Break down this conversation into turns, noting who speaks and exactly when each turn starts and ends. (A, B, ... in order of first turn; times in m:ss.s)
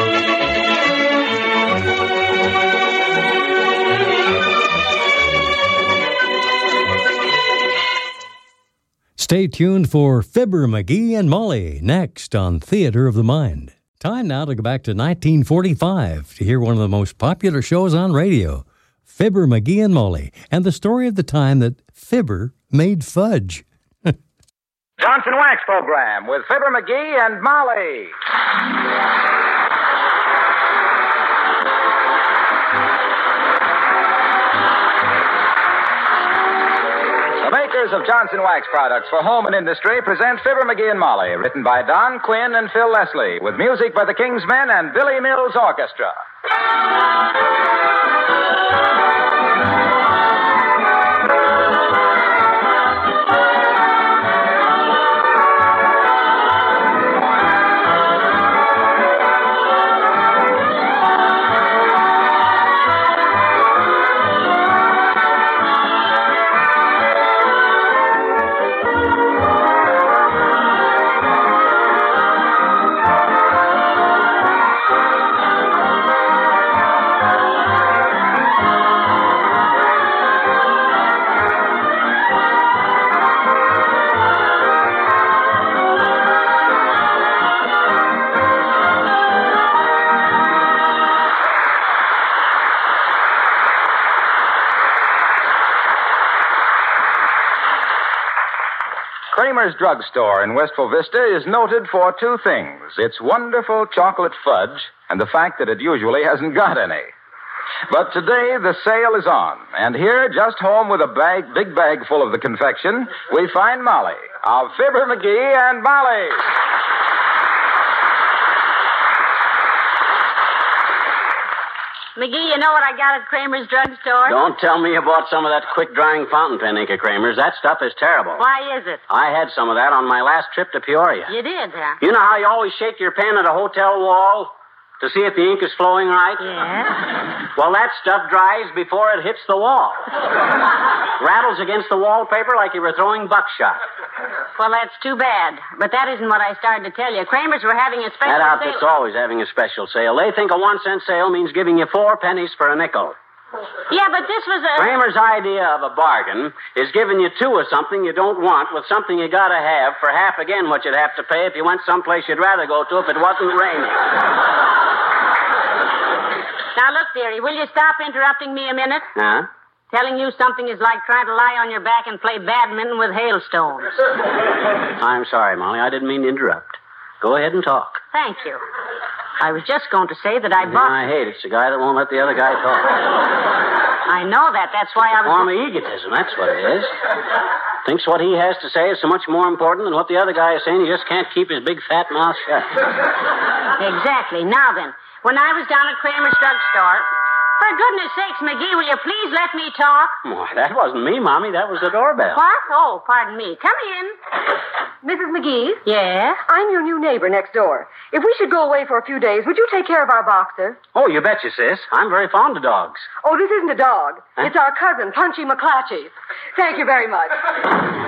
0:09.2-0:24.1 A
0:25.0-0:28.1 B
0:37.4-0:46.2 B
1:39.3-1:47.1 B
1:47.9-1:56.4 B
2:02.2-2:04.4 C
2:04.2-2:08.4 D
2:08.4-2:09.0 C
2:09.1-2:11.3 D
2:11.3-2:12.0 C
2:12.0-2:16.4 D
2:16.4-2:17.0 C
2:17.5-2:20.1 D
2:21.2-2:23.8 D
2:24.6-2:28.9 C
2:28.2-2:33.2 D
2:33.9-2:35.0 C
2:34.8-2:44.2 D
2:46.8-2:49.1 C
2:49.2-2:49.5 D
2:49.9-2:54.0 C
2:55.0-2:58.0 D
2:58.1-2:58.6 C
2:59.4-3:01.0 C
3:00.6-3:03.1 D
3:04.1-3:05.5 C
3:05.2-3:06.9 D
3:07.8-3:12.8 D
3:13.8-3:17.1 C
3:17.6-3:20.2 C
3:20.2-3:22.4 D
3:22.3-3:24.2 C
3:25.0-3:25.8 E
3:25.8-3:26.4 C
3:26.5-3:30.8 E
3:30.9-3:33.1 D
3:33.2-3:37.4 E